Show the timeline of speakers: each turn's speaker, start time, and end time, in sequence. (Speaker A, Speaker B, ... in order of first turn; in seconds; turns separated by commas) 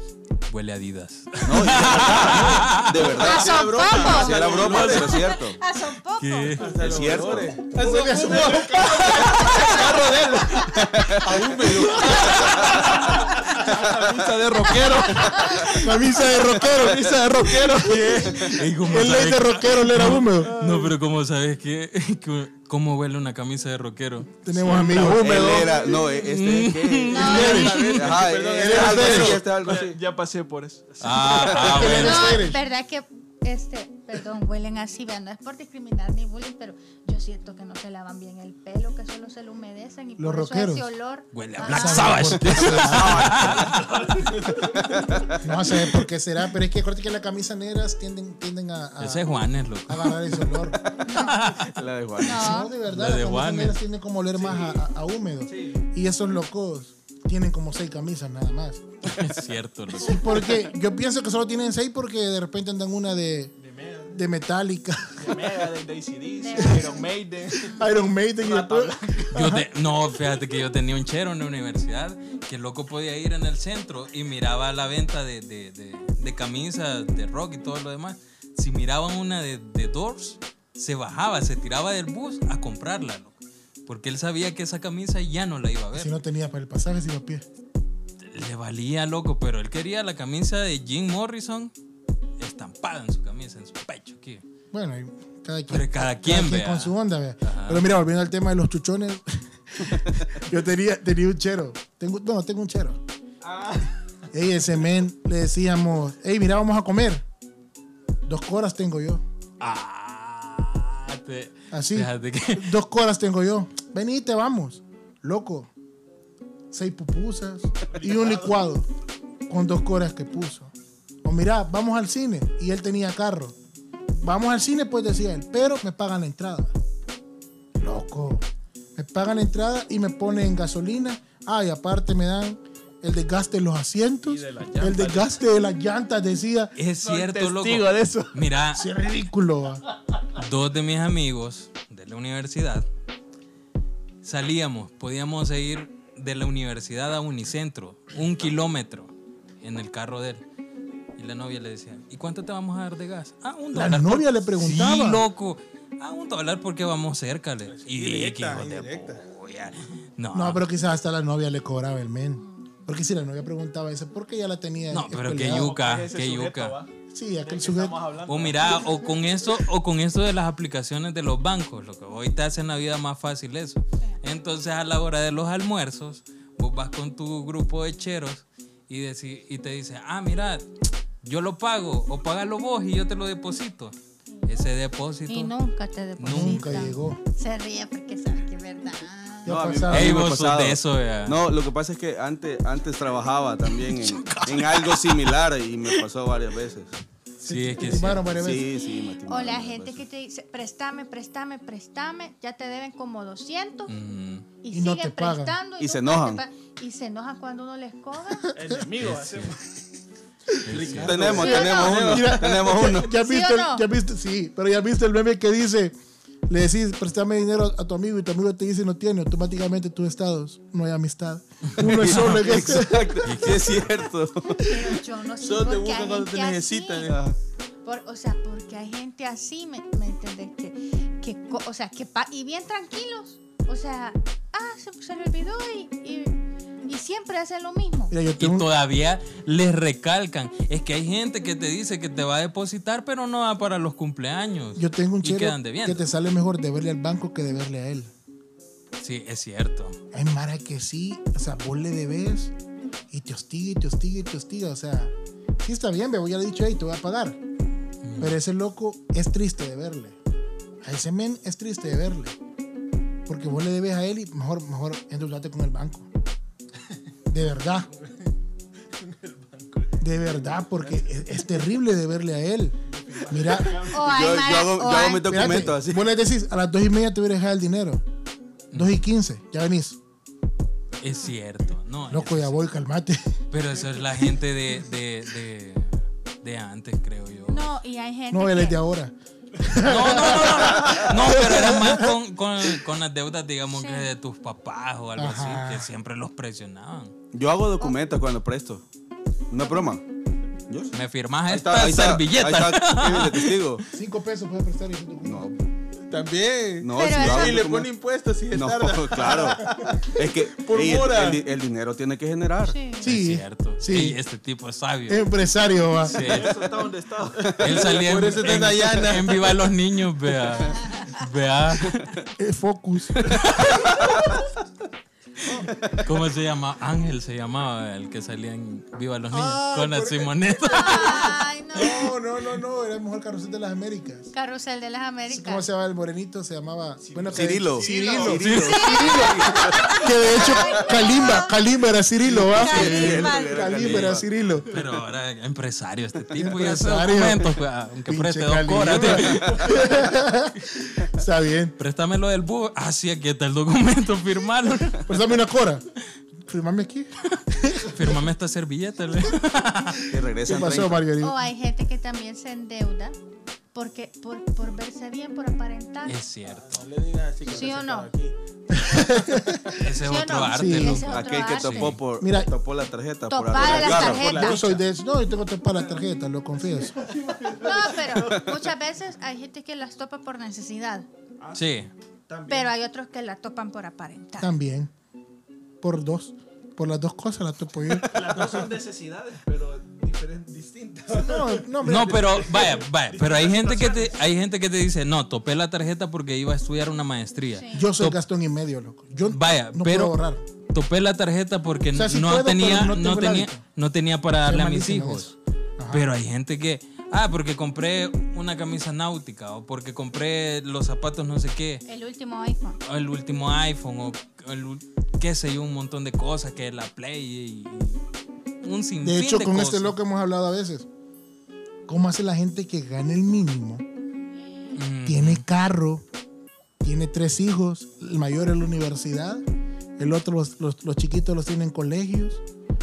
Speaker A: 0.5-3.0, Speaker B: 1.4-5.6, Speaker C: 2.0-5.2, Speaker D: 3.0-6.7, Speaker A: 4.5-5.2, Speaker A: 6.2-6.8, Speaker C: 6.6-9.8, Speaker B: 6.7-7.7, Speaker E: 7.6-10.7, Speaker F: 7.7-8.7, Speaker B: 10.7-11.4, Speaker E: 11.2-18.4, Speaker C: 11.7-11.9, Speaker A: 12.0-12.7, Speaker F: 15.8-18.2, Speaker A: 17.9-25.5, Speaker F: 18.9-20.6, Speaker E: 20.4-20.9, Speaker F: 24.4-25.7, Speaker E: 24.6-25.8, Speaker B: 24.9-30.0, Speaker A: 26.1-28.1, Speaker D: 27.1-27.7, Speaker C: 27.1-29.4, Speaker F: 27.2-27.8, Speaker F: 28.6-29.4, Speaker E: 29.5-31.9, Speaker A: 31.0-32.5, Speaker B: 31.3-32.0, Speaker F: 31.7-32.6, Speaker D: 31.9-42.6, Speaker F: 40.2-40.9, Speaker A: 41.3-44.3, Speaker F: 41.6-43.5, Speaker E: 42.8-45.3, Speaker B: 44.9-45.4, Speaker F: 45.4-50.8, Speaker A: 49.0-51.7, Speaker B: 51.0-52.6, Speaker D: 52.2-52.7, Speaker F: 52.3-59.2, Speaker A: 52.9-53.8, Speaker E: 54.3-54.9, Speaker E: 55.5-55.8, Speaker A: 59.1-60.6, Speaker F: 60.0-63.5, Speaker E: 60.0-60.5, Speaker E: 63.6-64.2, Speaker F: 64.1-65.7, Speaker E: 65.2-69.3, Speaker D: 66.4-67.1, Speaker F: 67.7-69.7, Speaker A: 69.3-86.2, Speaker F: 85.9-87.5, Speaker A: 88.2-91.7, Speaker A: 92.4-94.4, Speaker F: 94.7-103.0, Speaker A: 95.7-97.9, Speaker E: 103.4-104.0, Speaker F: 104.3-107.2, Speaker F: 108.2-109.2, Speaker A: 109.6-112.7, Speaker F: 111.7-115.7, Speaker F: 116.7-118.9, Speaker E: 117.8-118.6, Speaker F: 119.5-120.7, Speaker F: 121.2-123.6, Speaker F: 124.1-126.8, Speaker F: 127.8-128.4, Speaker F: 129.0-136.7, Speaker E: 134.2-135.4, Speaker A: 136.8-138.9, Speaker E: 136.8-138.5, Speaker F: 138.8-139.8, Speaker A: 140.3-142.9, Speaker A: 144.2-150.4, Speaker A: 151.2-160.6, Speaker F: 153.7-155.2, Speaker C: 157.7-159.3, Speaker F: 160.3-165.7, Speaker D: 162.4-162.7, Speaker A: 164.9-166.8, Speaker E: 165.4-169.0, Speaker F: 167.1-168.0, Speaker A: 168.3-180.7, Speaker A: 181.2-183.9, Speaker D: 184.3-184.7, Speaker A: 184.5-185.5, Speaker D: 185.3-189.8, Speaker A: 186.2-186.8, Speaker F: 186.2-187.2, Speaker F: 189.4-190.3, Speaker B: 189.5-196.9, Speaker A: 189.9-191.4, Speaker A: 193.8-195.1, Speaker A: 197.4-198.5, Speaker F: 197.4-198.7, Speaker B: 198.3-200.0, Speaker D: 198.7-204.0, Speaker A: 203.9-204.5, Speaker D: 204.6-208.5, Speaker F: 204.7-205.6, Speaker B: 205.8-206.4, Speaker E: 208.5-209.8, Speaker F: 208.6-208.8, Speaker A: 209.0-209.5, Speaker A: 210.7-211.2, Speaker E: 210.7-211.6, Speaker F: 210.9-216.0, Speaker B: 211.0-213.1, Speaker D: 211.6-212.2, Speaker C: 211.6-212.3, Speaker D: 213.0-213.8, Speaker F: 216.5-223.3, Speaker A: 221.7-223.9, Speaker B: 221.8-224.9, Speaker D: 224.6-227.2, Speaker C: 225.4-227.2, Speaker B: 227.0-227.4, Speaker D: 227.8-236.3, Speaker D: 236.9-238.1, Speaker F: 238.1-238.7, Speaker A: 238.4-246.1, Speaker F: 244.8-248.1, Speaker A: 249.0-250.0, Speaker F: 250.1-252.5, Speaker F: 253.1-257.4, Speaker A: 258.0-258.4, Speaker F: 258.2-260.2, Speaker F: 260.8-262.4, Speaker F: 263.3-266.1, Speaker F: 267.3-267.9, Speaker E: 267.9-268.3, Speaker E: 268.9-271.1, Speaker F: 270.0-272.8, Speaker E: 272.9-274.3, Speaker F: 273.3-273.9, Speaker D: 273.9-275.7, Speaker B: 273.9-276.1, Speaker F: 275.2-278.0, Speaker A: 278.7-279.0, Speaker F: 278.7-280.0, Speaker A: 281.0-282.6, Speaker F: 282.1-283.4, Speaker A: 283.5-287.7, Speaker D: 287.5-288.8, Speaker F: 288.3-292.1, Speaker A: 289.8-297.1, Speaker D: 293.7-294.1, Speaker F: 295.2-295.9, Speaker B: 297.3-298.8, Speaker B: 299.5-300.0, Speaker B: 300.7-303.9, Speaker A: 300.9-303.6, Speaker F: 303.9-305.5, Speaker B: 305.2-305.6, Speaker C: 306.1-311.4, Speaker B: 306.8-307.9, Speaker D: 306.9-307.6, Speaker B: 308.5-312.8, Speaker D: 312.7-313.1, Speaker F: 313.0-314.2, Speaker A: 313.1-315.3, Speaker F: 315.1-316.2, Speaker E: 316.0-317.9, Speaker A: 316.0-316.7, Speaker B: 317.4-317.9, Speaker A: 317.6-322.1, Speaker C: 317.9-319.5, Speaker D: 320.7-321.1, Speaker F: 322.4-323.4, Speaker A: 323.6-323.9, Speaker B: 325.6-326.1, Speaker A: 326.0-331.3, Speaker F: 329.3-334.3, Speaker D: 330.6-332.1, Speaker D: 334.3-335.7, Speaker F: 335.3-339.3, Speaker E: 337.0-338.5, Speaker B: 337.3-339.9, Speaker A: 338.4-339.0, Speaker D: 338.6-341.6, Speaker F: 339.9-344.7, Speaker B: 342.2-344.3, Speaker D: 342.3-344.1, Speaker A: 342.9-343.2, Speaker A: 344.7-349.5, Speaker F: 346.3-351.8, Speaker B: 349.2-349.9, Speaker E: 349.4-349.8, Speaker A: 351.8-355.1, Speaker F: 355.1-355.9, Speaker F: 356.4-358.2, Speaker A: 357.9-360.1, Speaker B: 360.1-361.1, Speaker F: 360.4-361.5, Speaker D: 361.2-363.2, Speaker D: 363.7-366.2, Speaker A: 366.1-366.9, Speaker C: 366.4-369.1, Speaker D: 367.5-368.1, Speaker F: 368.8-369.8, Speaker A: 369.8-372.0, Speaker D: 370.0-372.0, Speaker F: 370.5-371.1, Speaker B: 371.1-374.7, Speaker F: 372.2-372.5, Speaker D: 373.3-374.6, Speaker C: 373.5-374.6, Speaker F: 373.8-377.1, Speaker E: 375.8-376.0, Speaker E: 376.6-378.5, Speaker D: 377.6-381.1, Speaker E: 381.4-382.7, Speaker A: 381.6-381.9, Speaker D: 382.5-384.5, Speaker F: 384.4-384.9, Speaker F: 385.8-388.7, Speaker E: 388.1-394.2, Speaker F: 391.1-392.6, Speaker A: 391.8-398.2, Speaker D: 397.5-397.9, Speaker F: 397.7-400.4, Speaker A: 399.3-400.2, Speaker A: 400.7-405.4, Speaker F: 401.9-403.6, Speaker F: 404.4-406.1, Speaker A: 405.9-411.8, Speaker D: 411.9-412.8, Speaker A: 412.9-418.0, Speaker A: 418.6-420.0, Speaker F: 419.0-420.9, Speaker F: 421.9-423.8, Speaker A: 424.8-425.5, Speaker F: 425.1-426.0, Speaker F: 426.8-429.4, Speaker F: 430.0-432.4